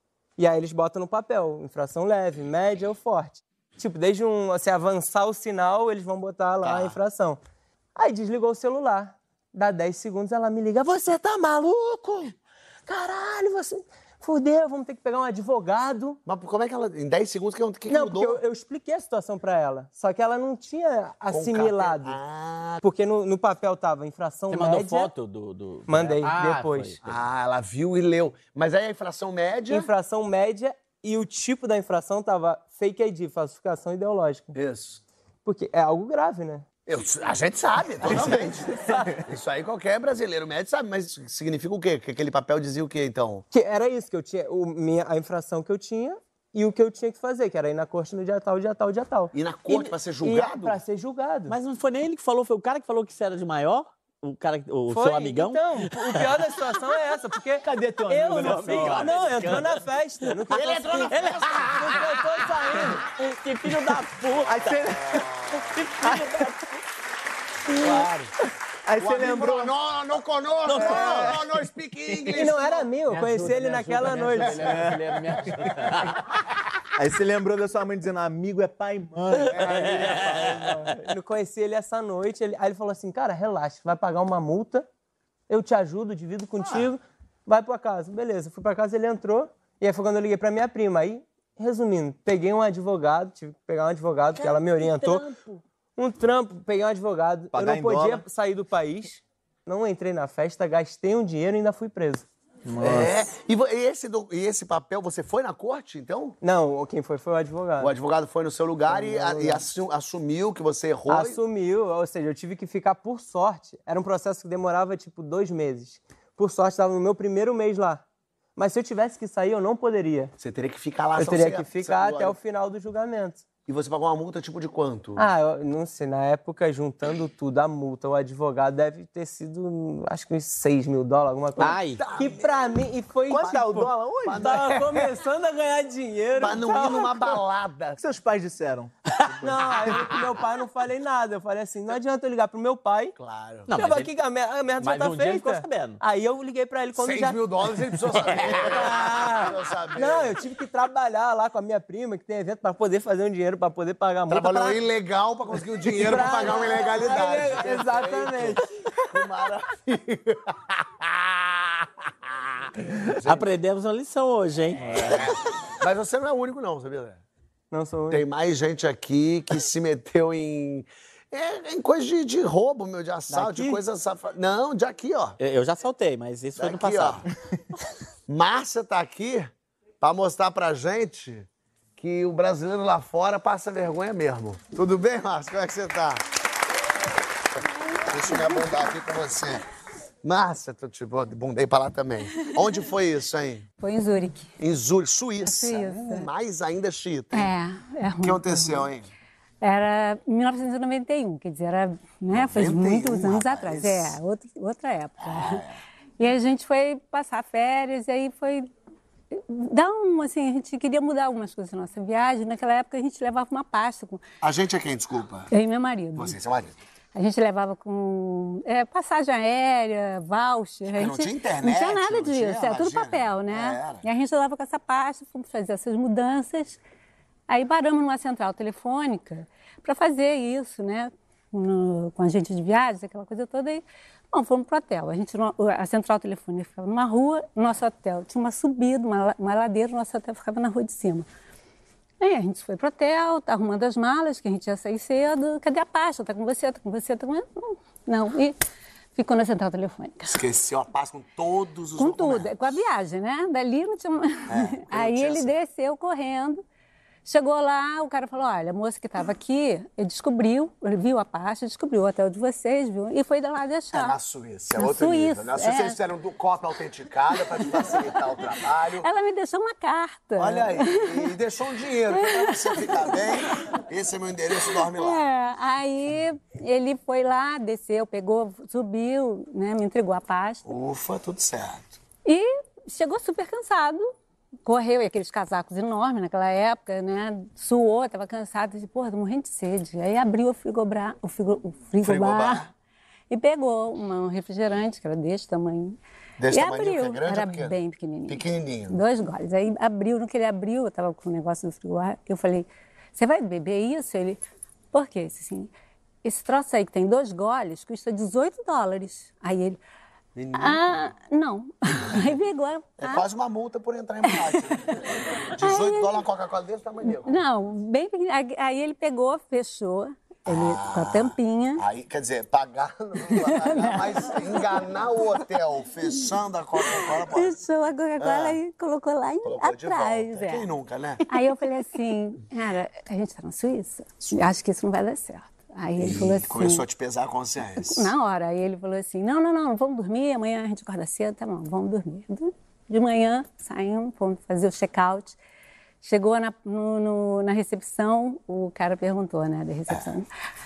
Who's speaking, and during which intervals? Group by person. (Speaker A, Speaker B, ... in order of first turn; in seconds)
Speaker A: 0.4-7.4, 8.0-12.3, 12.9-16.2, 17.9-22.2, 22.8-25.1, 25.9-27.0, 29.7-34.5, 35.4-36.6, 43.5-51.5, 54.9-63.0, 72.3-74.7, 81.0-84.9, 85.5-95.3, 96.0-102.2, 106.4-107.9, 108.9-109.7, 111.1-118.0, 118.5-120.3, 121.2-123.4, 125.2-137.4, 139.4-143.2, 143.7-147.4, 148.4-154.8, 155.8-159.0, 167.7-168.2, 173.3-173.8
Speaker B: 6.6-7.0, 16.2-18.4, 21.3-22.8, 27.0-29.9, 34.5-35.0, 36.9-43.4, 49.3-50.8, 60.5-62.1, 64.6-65.8, 67.7-68.3, 69.0-72.9, 102.8-106.4, 107.8-111.4, 120.4-122.4, 123.7-125.3, 131.9-132.7, 134.2-135.1, 136.4-138.0, 143.2-143.7, 146.9-150.3, 154.3-161.9, 162.8-163.5, 164.9-167.2, 168.1-175.4, 176.6-177.3, 178.3-186.2, 188.1-189.6, 190.2-193.7, 194.6-197.5, 198.2-199.1, 202.3-204.2, 205.2-205.8, 214.4-215.5, 216.2-216.8, 220.9-224.0, 250.3-252.8, 254.5-255.5, 263.9-269.1, 270.4-275.2, 280.6-282.0, 292.0-292.7, 296.4-297.8, 298.3-299.0, 310.4-310.8, 313.0-317.4, 320.5-327.6, 328.2-328.6, 329.4-331.2, 336.0-338.1
Speaker C: 24.5-27.1, 51.5-56.5, 58.3-59.8, 61.1-62.1, 62.8-64.8, 65.5-66.7, 70.6-71.4, 74.4-76.1, 79.5-80.9, 94.9-95.5, 131.6-132.0, 143.7-144.1, 144.8-146.0, 148.4-148.8, 163.2-165.3, 175.4-177.2
Speaker D: 57.6-59.6, 64.5-65.4, 66.0-66.5, 68.9-69.8, 70.9-71.3, 73.1-76.1, 77.0-81.0, 97.5-98.2, 102.6-103.2, 133.3-134.6, 138.0-139.9
Speaker E: 193.8-194.5, 195.4-196.3, 197.3-198.9, 199.6-205.7, 206.2-208.7, 209.3-214.2, 215.5-216.4, 217.1-226.8, 227.5-241.3, 242.2-248.6, 249.1-250.4, 252.0-256.6, 257.2-264.1, 264.8-265.9, 267.3-268.1, 269.0-271.4, 272.1-273.8, 274.7-280.6, 282.2-284.1, 284.6-292.7, 293.3-305.7, 306.2-309.8, 310.5-313.2, 314.2-315.0, 315.6-316.2, 317.1-321.8, 323.3-324.9, 326.8-330.7, 331.2-336.8, 337.8-345.4, 346.0-350.3